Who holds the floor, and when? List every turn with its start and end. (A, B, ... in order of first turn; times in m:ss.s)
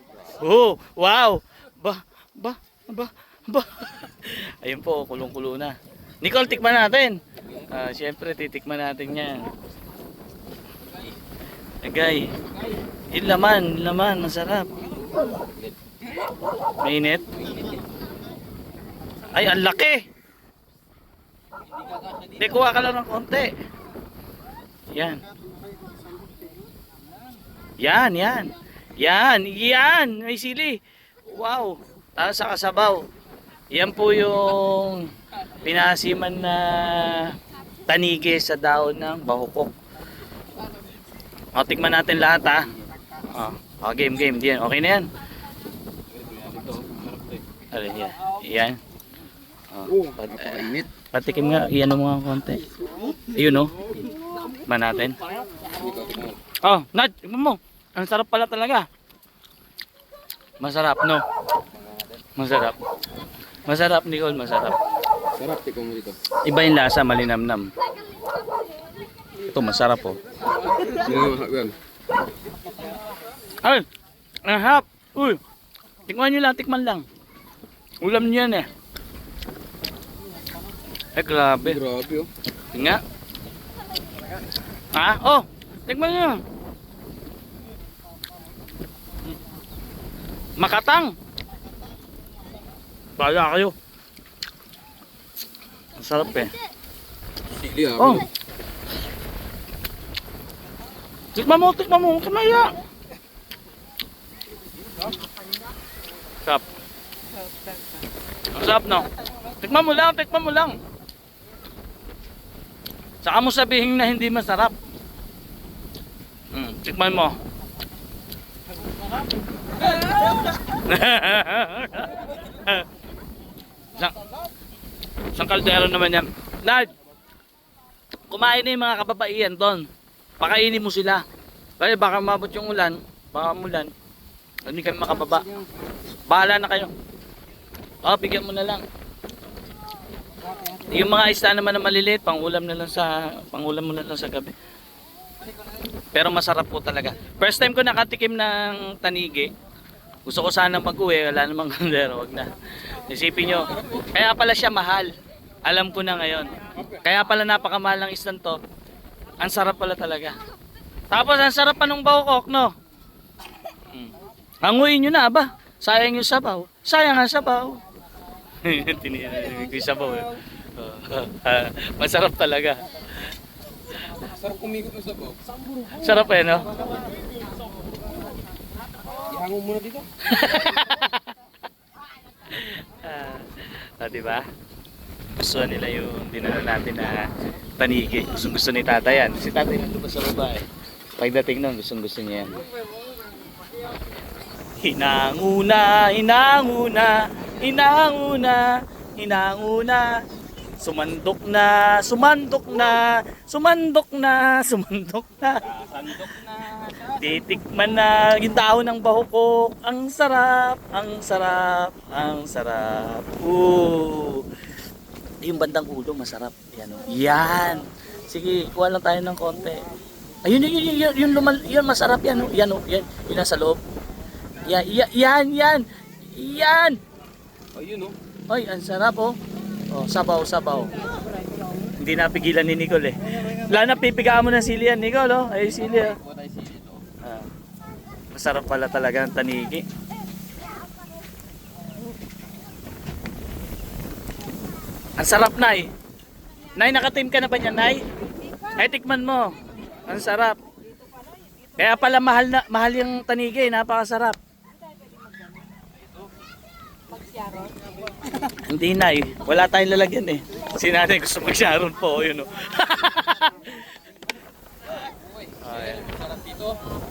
0:00.3-0:09.5 A
0:11.8-0:12.4 A
0:13.1-0:14.8 A
0:15.4-0:15.7 B
0:16.8-0:17.3 A
0:19.3-0:20.0 A
0:21.8-0:22.3 B
0:22.4-0:23.5 A
0:24.9-0:25.2 A
0:27.8-0:33.0 A
0:33.7-0:35.1 A
0:35.6-0:37.4 A
0:37.9-0:39.7 A
0:41.5-0:42.7 A
0:43.3-0:45.1 A
0:46.1-0:47.4 B
0:47.7-0:48.8 A
0:49.7-0:52.7 A
0:49.9-0:50.9 B
0:53.3-0:53.8 A
0:54.7-0:55.2 A
0:55.8-0:56.4 B
0:56.6-0:58.9 A
1:00.6-1:01.2 A
1:01.8-1:02.0 B
1:02.4-1:02.8 A
1:03.7-1:04.8 A
1:05.4-1:06.2 B
1:06.4-1:07.7 A
1:09.4-1:10.2 A
1:10.8-1:11.8 B
1:14.4-1:15.4 A
1:16.1-1:17.0 A
1:18.0-1:18.7 A
1:21.2-1:21.8 A
1:21.6-1:22.3 B
1:22.7-1:23.0 A
1:24.9-1:26.4 A
1:30.6-1:31.1 A
1:33.2-1:33.7 A
1:36.0-1:36.6 A
1:37.5-1:38.3 B
1:38.0-1:38.2 A
1:41.4-1:42.8 A
1:48.5-1:49.1 A
1:49.6-1:50.8 A
1:53.2-1:54.7 A
1:56.5-1:57.4 A
2:00.7-2:02.8 A
2:05.4-2:06.9 A
2:08.3-2:09.9 A
2:10.4-2:11.2 A
2:11.8-2:13.9 A
2:14.7-2:15.5 A
2:16.3-2:16.9 A
2:18.0-2:18.8 A
2:20.9-2:24.5 A
2:26.1-2:29.5 A
2:30.3-2:32.5 A
2:33.1-2:35.1 A
2:35.6-2:38.6 A
2:39.4-2:40.4 A
2:41.1-2:42.7 A
2:44.6-2:47.8 A
2:48.6-2:52.8 A
2:54.1-2:55.5 B
2:55.9-2:56.8 A
2:59.2-3:00.1 B
3:00.2-3:01.3 A
3:02.5-3:04.4 A
3:05.4-3:10.6 A
3:11.2-3:12.7 A
3:14.8-3:20.1 A
3:20.8-3:25.6 A
3:25.6-3:27.4 B
3:27.1-3:34.4 A
3:35.4-3:39.8 A
3:40.4-3:43.8 A
3:44.6-3:47.0 A
3:47.7-3:48.2 B
3:48.5-3:49.4 A
3:49.9-3:50.9 A
3:52.0-3:56.2 A
3:55.8-3:57.0 B
3:57.2-3:57.5 A
3:58.3-3:59.8 A
4:05.2-4:05.9 A
4:06.8-4:08.0 A
4:08.8-4:09.6 A
4:10.1-4:10.6 A
4:11.8-4:14.4 A
4:18.6-4:23.8 A
4:25.6-4:26.8 B
4:25.6-4:26.1 A